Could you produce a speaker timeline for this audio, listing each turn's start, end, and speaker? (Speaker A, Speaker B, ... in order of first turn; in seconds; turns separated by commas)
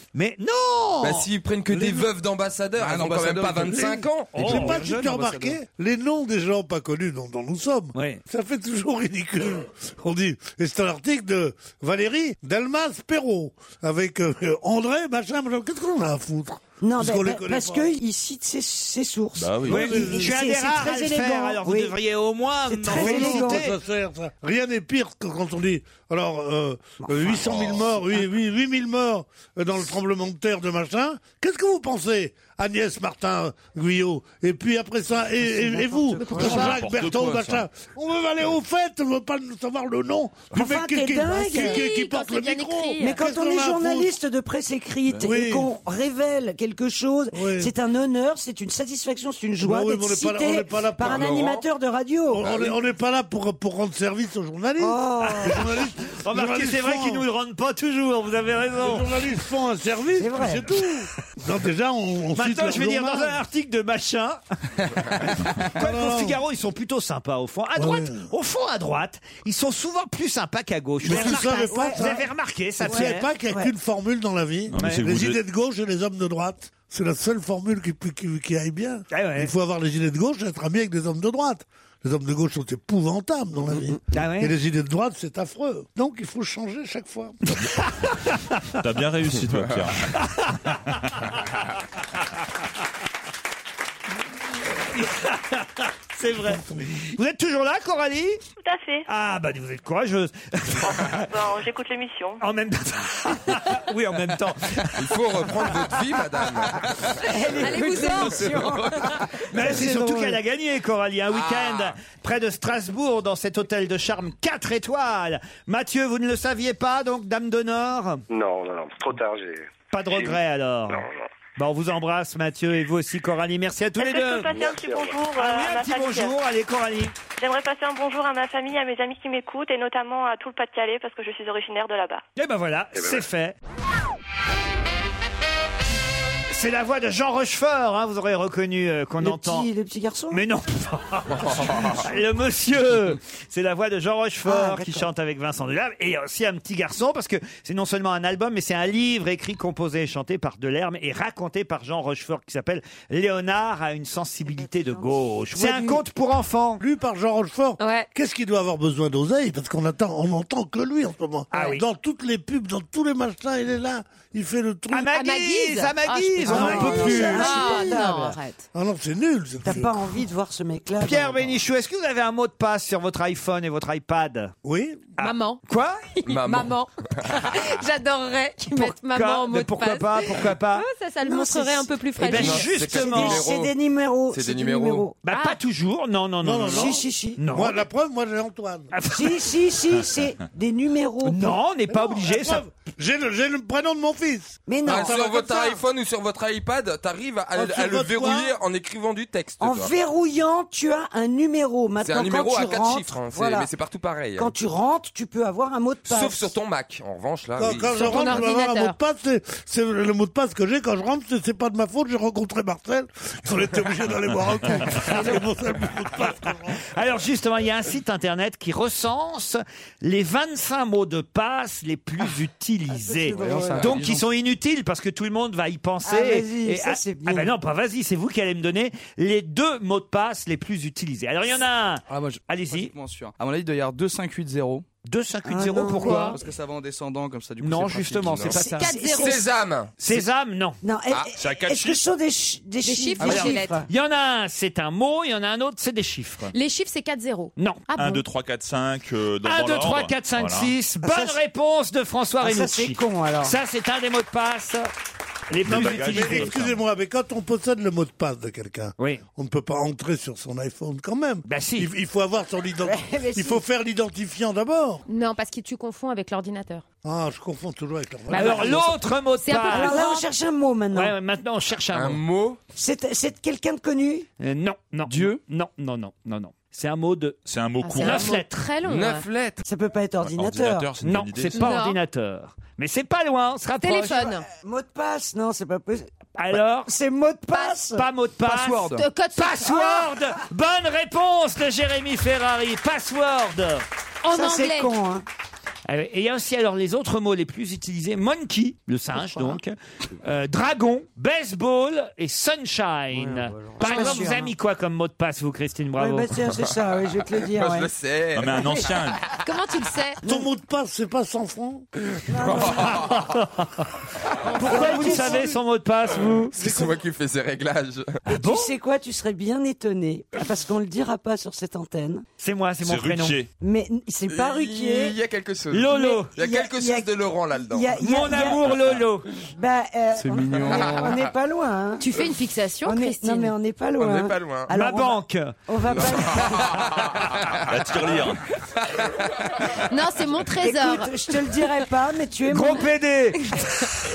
Speaker A: 0.1-1.3, Speaker B: 1.0-4.7, Speaker C: 1.7-2.1, Speaker D: 2.8-3.9, Speaker C: 3.4-17.9, Speaker A: 4.3-5.1, Speaker D: 4.4-5.6, Speaker A: 8.0-8.2, Speaker E: 16.8-21.9, Speaker C: 19.6-20.3, Speaker A: 19.6-23.8, Speaker E: 22.7-23.6, Speaker C: 22.9-44.2, Speaker E: 35.5-36.8, Speaker F: 36.4-37.7, Speaker G: 36.4-36.7, Speaker E: 40.5-41.9, Speaker G: 41.5-43.1, Speaker E: 43.0-52.5, Speaker C: 45.2-45.7, Speaker C: 47.3-47.7, Speaker C: 49.6-51.3, Speaker B: 51.0-51.6, Speaker C: 52.3-57.2, Speaker B: 52.4-52.8, Speaker E: 54.8-55.7, Speaker A: 55.2-59.1, Speaker C: 58.8-63.4, Speaker E: 60.2-60.7, Speaker A: 62.4-73.3, Speaker C: 65.8-66.4, Speaker C: 67.8-68.3, Speaker C: 71.0-72.3, Speaker E: 71.1-72.0, Speaker C: 72.8-87.4, Speaker E: 72.8-73.7, Speaker F: 74.7-75.4, Speaker A: 74.8-75.1, Speaker A: 79.1-79.5, Speaker A: 84.1-84.5, Speaker F: 88.8-90.2, Speaker A: 95.0-96.6, Speaker C: 96.4-97.2, Speaker A: 97.2-98.4, Speaker H: 98.6-99.1, Speaker A: 99.1-101.3, Speaker H: 100.8-102.4, Speaker A: 102.4-105.1, Speaker B: 105.0-107.5, Speaker E: 107.2-110.4, Speaker G: 107.6-108.5, Speaker B: 108.4-109.2, Speaker A: 109.5-118.2, Speaker B: 111.3-111.9, Speaker I: 118.3-120.4, Speaker A: 119.9-124.5, Speaker I: 120.9-121.2, Speaker H: 124.0-126.3, Speaker I: 124.5-125.2, Speaker A: 125.4-127.2, Speaker H: 127.4-132.2, Speaker A: 132.4-133.6, Speaker I: 132.9-133.2, Speaker A: 136.5-139.7, Speaker E: 139.2-140.4, Speaker A: 140.3-156.8, Speaker B: 141.5-141.9, Speaker E: 144.4-145.1, Speaker E: 154.5-156.0, Speaker C: 156.8-165.2, Speaker G: 157.8-158.1, Speaker A: 161.5-161.8, Speaker A: 164.9-167.6, Speaker G: 165.1-168.6, Speaker E: 166.4-168.4, Speaker C: 166.5-167.8, Speaker C: 168.7-170.2, Speaker E: 169.6-171.6, Speaker A: 171.0-174.5, Speaker C: 174.6-175.2, Speaker G: 175.2-175.6, Speaker A: 175.2-176.0, Speaker G: 176.1-182.9, Speaker B: 176.3-177.7, Speaker A: 178.7-180.9, Speaker E: 181.2-182.0, Speaker B: 182.2-183.8, Speaker A: 182.2-183.4, Speaker E: 182.8-185.2, Speaker B: 184.3-185.1, Speaker A: 185.2-187.8, Speaker G: 185.3-185.6, Speaker C: 186.4-188.9, Speaker E: 186.6-187.5, Speaker A: 188.9-189.5, Speaker E: 189.1-191.5, Speaker A: 191.2-192.6, Speaker C: 191.9-195.3, Speaker E: 194.7-195.7, Speaker B: 194.8-199.9, Speaker C: 197.5-198.5, Speaker E: 199.6-203.7, Speaker B: 202.0-204.5, Speaker E: 204.4-206.5, Speaker B: 206.1-208.2, Speaker C: 207.6-216.8, Speaker G: 207.9-209.0, Speaker A: 214.9-215.4, Speaker A: 216.9-232.9, Speaker E: 222.9-223.9, Speaker D: 223.3-224.3, Speaker E: 226.0-227.6, Speaker D: 232.1-234.9, Speaker A: 235.1-236.4, Speaker E: 235.5-236.4, Speaker G: 236.0-236.4, Speaker D: 236.3-238.6, Speaker A: 237.6-238.9, Speaker B: 238.2-238.6, Speaker E: 238.5-239.4, Speaker G: 238.8-239.4, Speaker B: 239.1-240.0, Speaker A: 240.0-240.8, Speaker E: 240.8-243.9, Speaker F: 241.4-242.0, Speaker G: 242.8-243.8, Speaker A: 243.2-246.5, Speaker G: 246.5-248.2, Speaker A: 247.6-248.0, Speaker F: 248.0-250.7, Speaker A: 249.4-254.9, Speaker E: 251.0-251.4, Speaker E: 252.4-253.6, Speaker A: 255.5-256.6, Speaker F: 255.6-256.8, Speaker C: 255.7-265.1, Speaker A: 261.5-261.9, Speaker E: 262.8-263.6, Speaker G: 265.1-266.8, Speaker C: 267.0-269.0, Speaker G: 268.3-268.7, Speaker A: 268.3-270.1, Speaker G: 269.4-270.3, Speaker E: 269.6-271.1, Speaker A: 270.9-272.2, Speaker B: 271.9-272.6, Speaker E: 272.8-274.3, Speaker A: 274.4-277.4, Speaker D: 275.1-275.4, Speaker F: 277.5-278.3, Speaker G: 277.8-279.2, Speaker A: 278.0-278.6, Speaker B: 278.8-279.6, Speaker E: 279.6-280.9, Speaker F: 280.2-281.7, Speaker A: 281.0-284.3, Speaker G: 281.6-282.0, Speaker G: 283.8-284.5, Speaker E: 284.4-286.1, Speaker A: 286.4-286.9, Speaker E: 286.8-288.1, Speaker G: 287.5-287.8, Speaker A: 287.9-293.9, Speaker D: 288.4-289.0, Speaker G: 288.6-290.1, Speaker G: 294.2-294.9, Speaker E: 294.3-295.2, Speaker A: 295.9-306.3, Speaker E: 299.2-299.6, Speaker E: 303.1-304.5, Speaker G: 303.8-304.3, Speaker E: 306.0-307.9, Speaker B: 306.6-308.8, Speaker F: 308.3-309.3, Speaker E: 308.5-308.9, Speaker G: 309.4-310.2, Speaker C: 310.2-311.9, Speaker E: 312.3-313.1, Speaker B: 312.3-313.3, Speaker A: 313.1-313.8, Speaker E: 314.6-315.6, Speaker C: 314.6-315.6, Speaker A: 314.6-316.6, Speaker B: 316.5-318.2, Speaker C: 316.6-316.9, Speaker A: 318.3-318.7, Speaker E: 318.3-322.2, Speaker A: 322.4-323.4, Speaker F: 322.8-323.5, Speaker E: 323.6-325.2, Speaker B: 324.3-328.5, Speaker A: 325.7-326.3, Speaker E: 325.9-328.8, Speaker A: 328.0-329.3, Speaker E: 329.5-332.1, Speaker D: 330.2-331.2, Speaker B: 330.5-331.3, Speaker G: 332.0-333.5, Speaker E: 332.8-336.8, Speaker B: 334.0-334.7, Speaker A: 334.7-337.1, Speaker B: 335.9-337.6, Speaker F: 337.7-338.4, Speaker G: 339.9-341.1, Speaker E: 340.6-342.9, Speaker A: 342.5-343.6